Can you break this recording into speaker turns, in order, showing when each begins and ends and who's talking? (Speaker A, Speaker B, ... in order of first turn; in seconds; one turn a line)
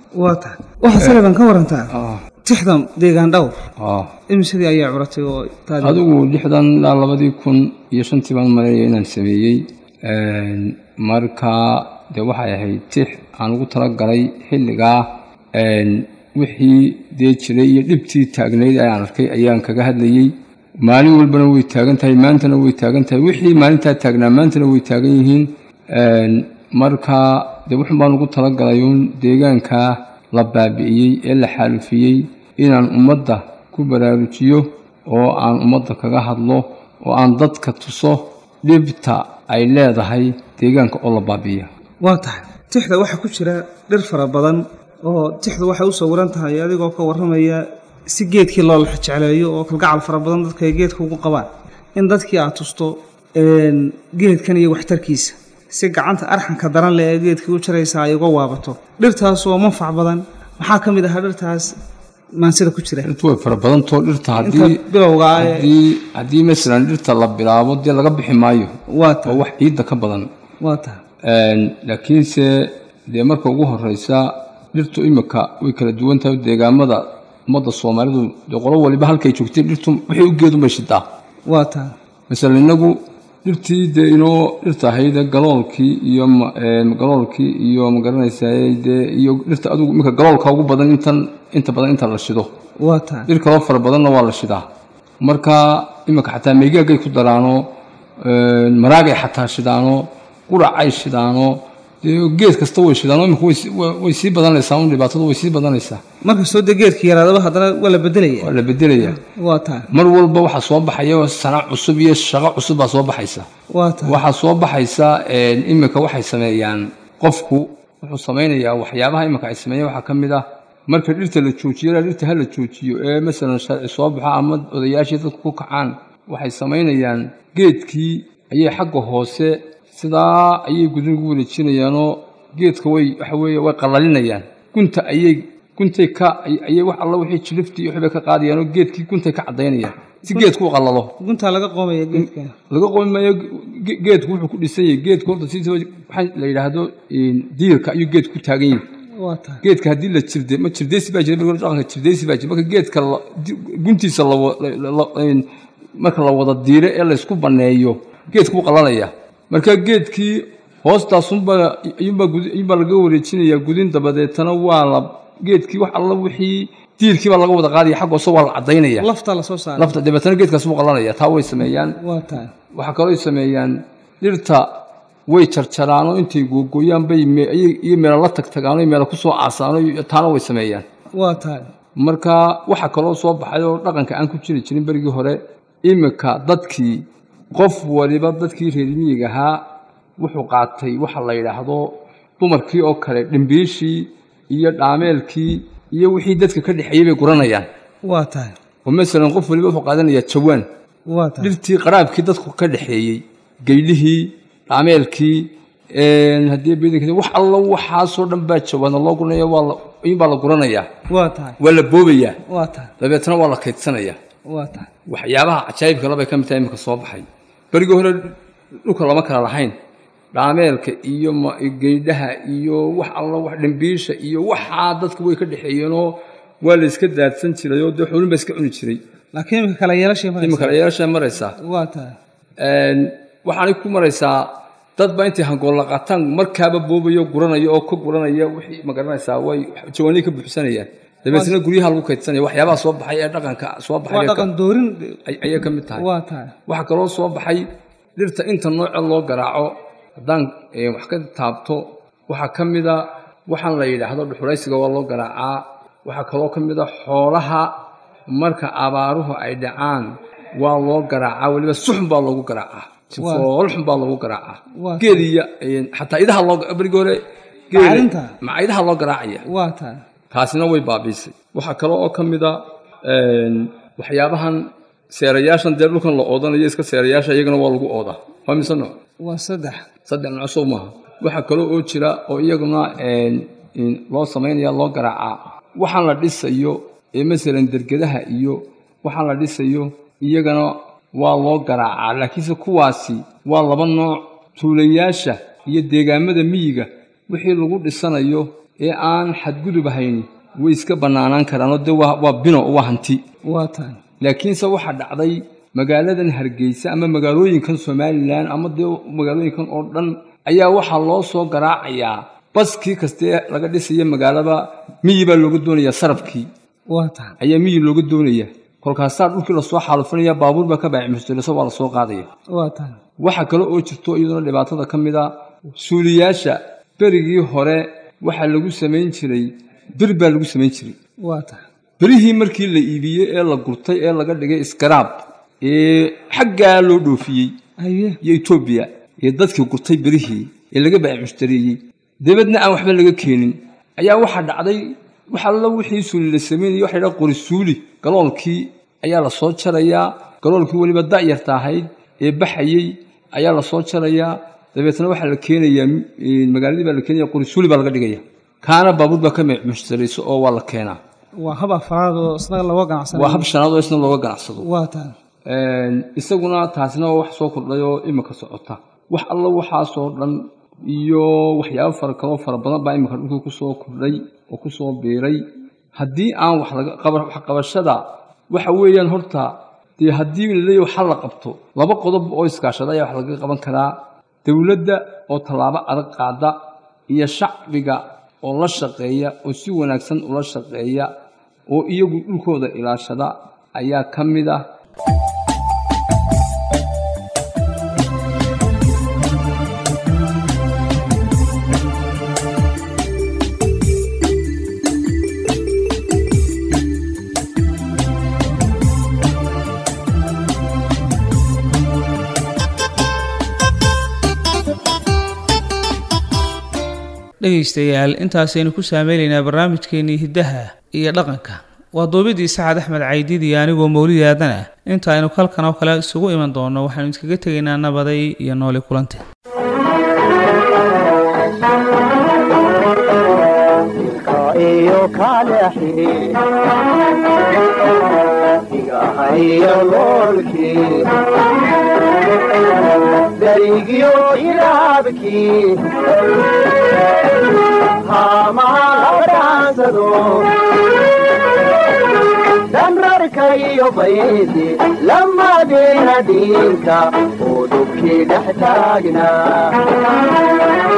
Speaker A: 0.2-3.6
Speaker B: 1.9-2.2
Speaker B: 3.8-4.1
Speaker A: 4.3-6.0
Speaker B: 5.8-41.7
Speaker A: 42.0-61.8
Speaker A: 62.4-63.1
Speaker B: 63.0-64.8
Speaker A: 64.4-65.7
Speaker B: 65.3-70.3
Speaker A: 68.9-69.4
Speaker A: 70.6-71.0
Speaker B: 71.2-81.0
Speaker A: 81.5-81.9
Speaker B: 82.3-92.5
Speaker A: 92.8-93.3
Speaker B: 93.3-94.7
Speaker B: 95.2-106.0
Speaker A: 106.2-109.9
Speaker B: 108.4-109.2
Speaker B: 109.9-113.5
Speaker A: 113.7-114.2
Speaker B: 114.0-141.2
Speaker A: 140.3-140.5
Speaker A: 141.2-142.6
Speaker B: 142.2-148.8
Speaker A: 149.2-149.6
Speaker B: 149.6-169.1
Speaker A: 169.0-170.0
Speaker B: 169.8-172.0
Speaker A: 172.0-172.5
Speaker B: 172.7-174.7
Speaker B: 175.3-180.9
Speaker A: 181.2-181.7
Speaker B: 182.0-189.6
Speaker B: 190.2-197.7
Speaker A: 198.0-198.6
Speaker B: 198.8-200.7
Speaker A: 201.1-201.6
Speaker B: 201.4-210.9
Speaker A: 211.1-211.6
Speaker B: 211.6-212.4
Speaker A: 212.5-212.9
Speaker B: 213.0-214.2
Speaker A: 214.5-214.9
Speaker B: 215.1-219.8
Speaker B: 220.3-229.0
Speaker A: 229.3-230.8
Speaker B: 230.4-231.6
Speaker A: 231.6-232.2
Speaker B: 232.6-244.5
Speaker A: 244.1-245.2
Speaker B: 245.2-246.1
Speaker A: 245.9-246.6
Speaker B: 246.7-257.8
Speaker B: 258.3-269.5
Speaker A: 263.2-263.5
Speaker A: 264.8-265.2
Speaker A: 267.7-268.4
Speaker A: 269.4-270.0
Speaker B: 270.3-279.0
Speaker A: 279.2-279.8
Speaker B: 280.1-303.2
Speaker A: 303.4-304.0
Speaker B: 304.2-316.5
Speaker A: 316.9-317.4
Speaker B: 317.4-322.3
Speaker A: 322.5-323.0
Speaker B: 323.2-331.0
Speaker A: 331.2-331.6
Speaker B: 332.0-337.6
Speaker A: 337.8-338.2
Speaker B: 338.2-361.0
Speaker A: 361.4-363.5
Speaker B: 363.1-364.7
Speaker A: 364.6-365.1
Speaker B: 365.5-375.4
Speaker B: 376.0-386.6
Speaker B: 387.1-391.1
Speaker B: 391.7-394.6
Speaker A: 417.4-429.2
Speaker C: 433.9-436.5
Speaker C: 438.7-441.3
Speaker C: 443.2-446.2
Speaker C: 448.0-450.9
Speaker C: 452.3-460.0